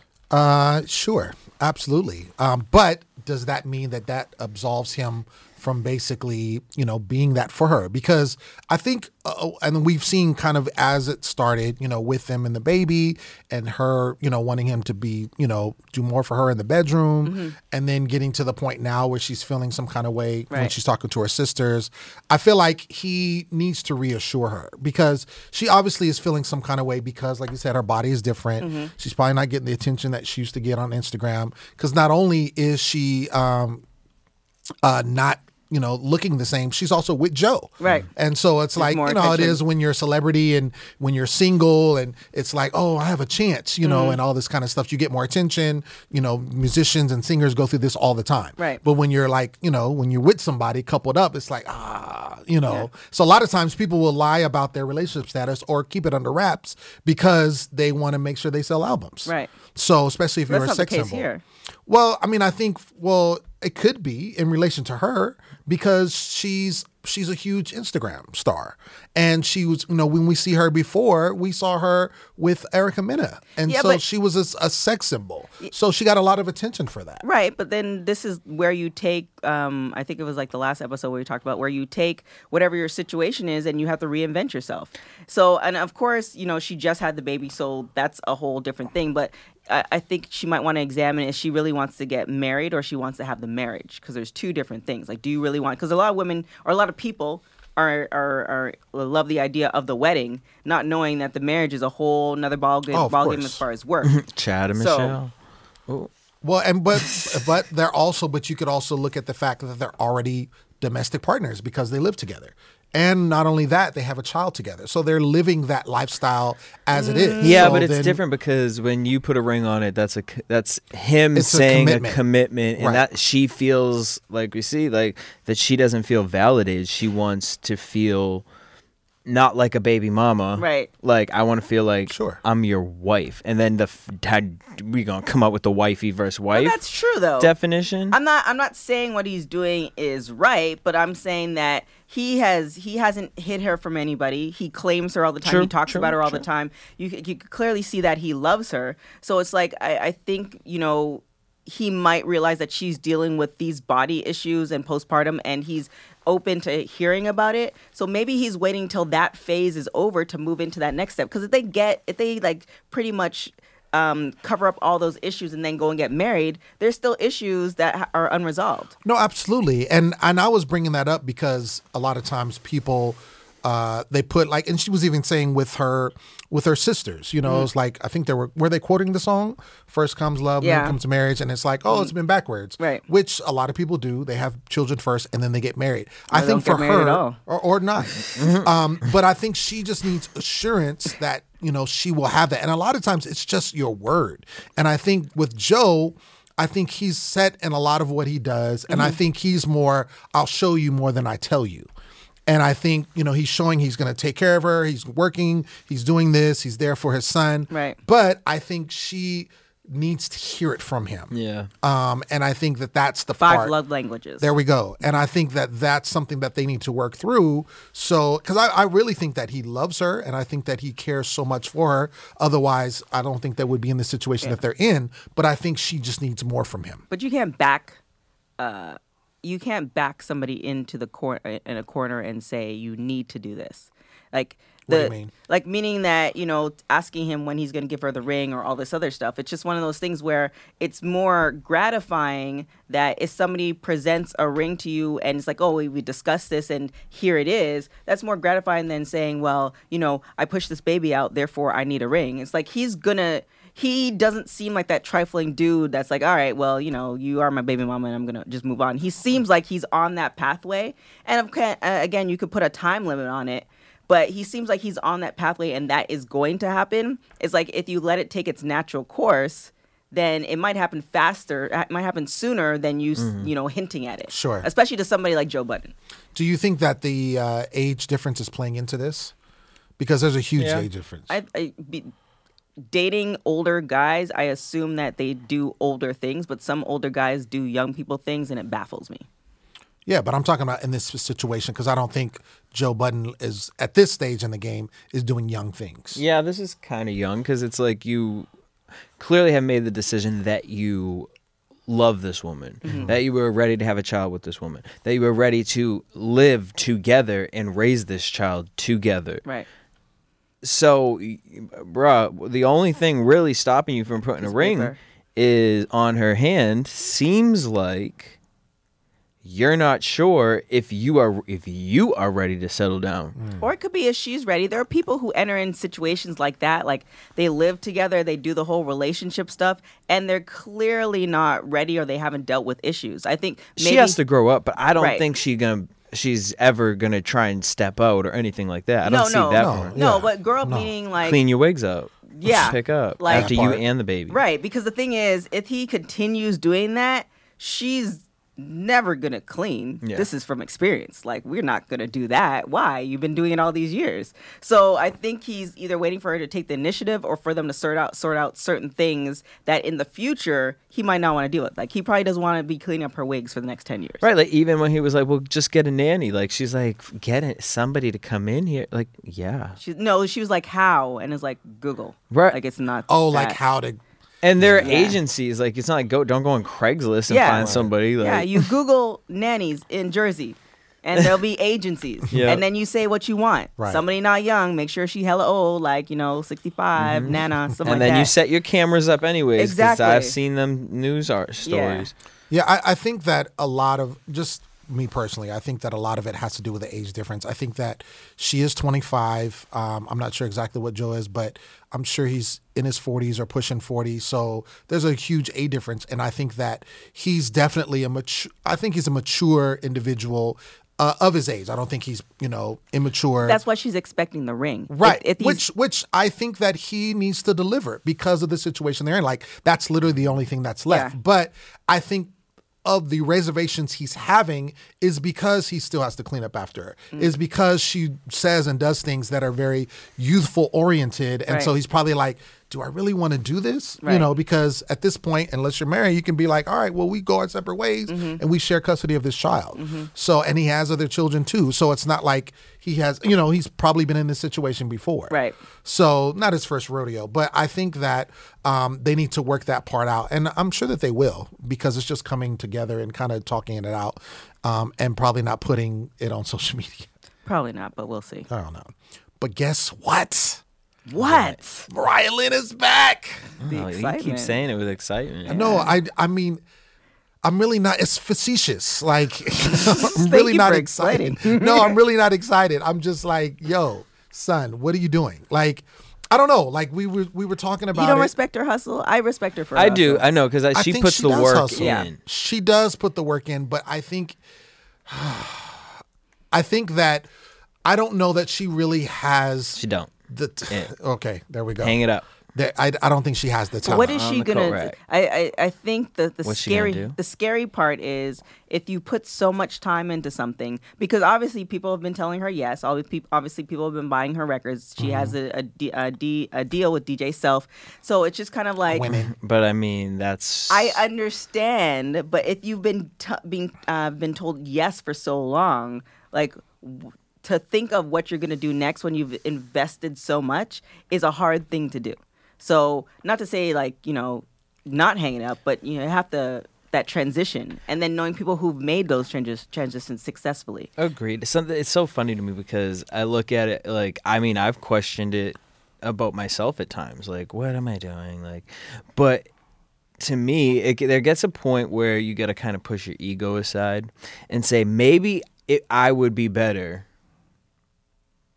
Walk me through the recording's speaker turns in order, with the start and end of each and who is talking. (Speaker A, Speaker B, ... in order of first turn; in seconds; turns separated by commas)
Speaker A: 0.3-33.8, Speaker B: 17.2-17.6, Speaker B: 28.6-28.9, Speaker A: 34.8-61.3, Speaker B: 37.8-38.1, Speaker B: 38.8-39.6, Speaker B: 43.8-44.2, Speaker B: 59.2-59.5, Speaker B: 60.5-61.4, Speaker A: 61.9-77.2, Speaker B: 73.7-74.0, Speaker B: 77.2-104.2, Speaker A: 102.9-103.6, Speaker C: 104.0-105.3, Speaker B: 104.8-105.2, Speaker A: 106.4-118.2, Speaker C: 107.0-107.4, Speaker B: 116.9-117.8, Speaker C: 117.4-128.4, Speaker A: 121.3-122.2, Speaker A: 122.8-123.0, Speaker C: 129.2-136.8, Speaker B: 130.6-130.9, Speaker A: 132.1-132.4, Speaker B: 136.5-137.5, Speaker C: 137.4-138.2, Speaker B: 138.1-168.9, Speaker C: 145.4-146.4, Speaker A: 169.1-201.9, Speaker B: 177.4-177.7, Speaker B: 180.6-181.0, Speaker B: 186.3-187.4, Speaker C: 188.3-188.7, Speaker B: 198.9-199.2, Speaker A: 202.5-213.7, Speaker B: 207.7-208.0, Speaker C: 211.3-211.7, Speaker B: 213.4-214.5, Speaker A: 214.4-227.0, Speaker B: 227.1-228.0, Speaker B: 228.6-275.9, Speaker A: 234.9-235.3, Speaker C: 273.2-273.5, Speaker A: 274.3-274.7, Speaker A: 276.4-279.3, Speaker A: 280.0-281.4, Speaker C: 280.6-280.9, Speaker B: 281.3-282.1, Speaker B: 282.9-289.2, Speaker A: 290.1-296.2, Speaker C: 296.1-298.5, Speaker C: 299.2-301.3, Speaker C: 301.9-309.4, Speaker B: 302.8-303.1, Speaker A: 302.9-303.1, Speaker C: 310.6-318.4, Speaker B: 314.4-315.0, Speaker C: 319.4-323.4, Speaker A: 323.4-323.7, Speaker B: 323.6-334.2, Speaker C: 333.8-340.0, Speaker B: 335.0-335.2, Speaker B: 339.0-341.4, Speaker A: 339.6-340.9, Speaker C: 341.2-344.4, Speaker B: 342.4-343.6, Speaker A: 343.3-343.8, Speaker B: 344.3-364.2, Speaker C: 350.0-350.3, Speaker C: 364.2-369.8, Speaker B: 369.8-373.6, Speaker C: 372.3-372.6, Speaker A: 373.1-374.0, Speaker C: 374.4-378.6, Speaker A: 374.6-375.0, Speaker B: 374.8-375.2, Speaker B: 377.3-388.3, Speaker A: 377.6-377.9, Speaker C: 382.3-382.6, Speaker A: 383.8-384.0, Speaker C: 387.0-392.1, Speaker B: 389.6-390.4, Speaker B: 391.6-392.1, Speaker A: 392.5-413.6, Speaker B: 413.4-415.6, Speaker A: 414.9-422.3, Speaker B: 420.9-421.1, Speaker A: 422.9-457.1, Speaker B: 434.0-434.3, Speaker B: 438.1-438.4, Speaker B: 439.8-440.1, Speaker B: 445.3-445.6, Speaker B: 457.4-458.5, Speaker A: 458.5-460.6, Speaker B: 461.1-461.9, Speaker C: 461.2-461.6, Speaker A: 461.9-463.6, Speaker C: 463.6-465.7, Speaker B: 463.7-464.6, Speaker A: 465.5-466.6, Speaker B: 465.5-465.9, Speaker A: 467.4-478.3, Speaker B: 469.6-472.0, Speaker B: 477.9-480.3, Speaker C: 479.8-482.2, Speaker A: 480.7-484.4, Speaker B: 481.3-482.1, Speaker A: 485.1-485.9, Speaker A: 486.5-487.3, Speaker A: 487.9-492.0, Speaker C: 489.8-490.1, Speaker C: 491.8-492.2, Speaker A: 492.5-494.2, Speaker B: 493.8-509.1, Speaker C: 493.9-494.9, Speaker C: 496.4-497.1, Speaker A: 505.0-505.4, Speaker A: 508.9-509.3, Speaker C: 509.1-511.0, Speaker B: 510.7-530.9, Speaker C: 531.0-539.5, Speaker C: 540.2-547.0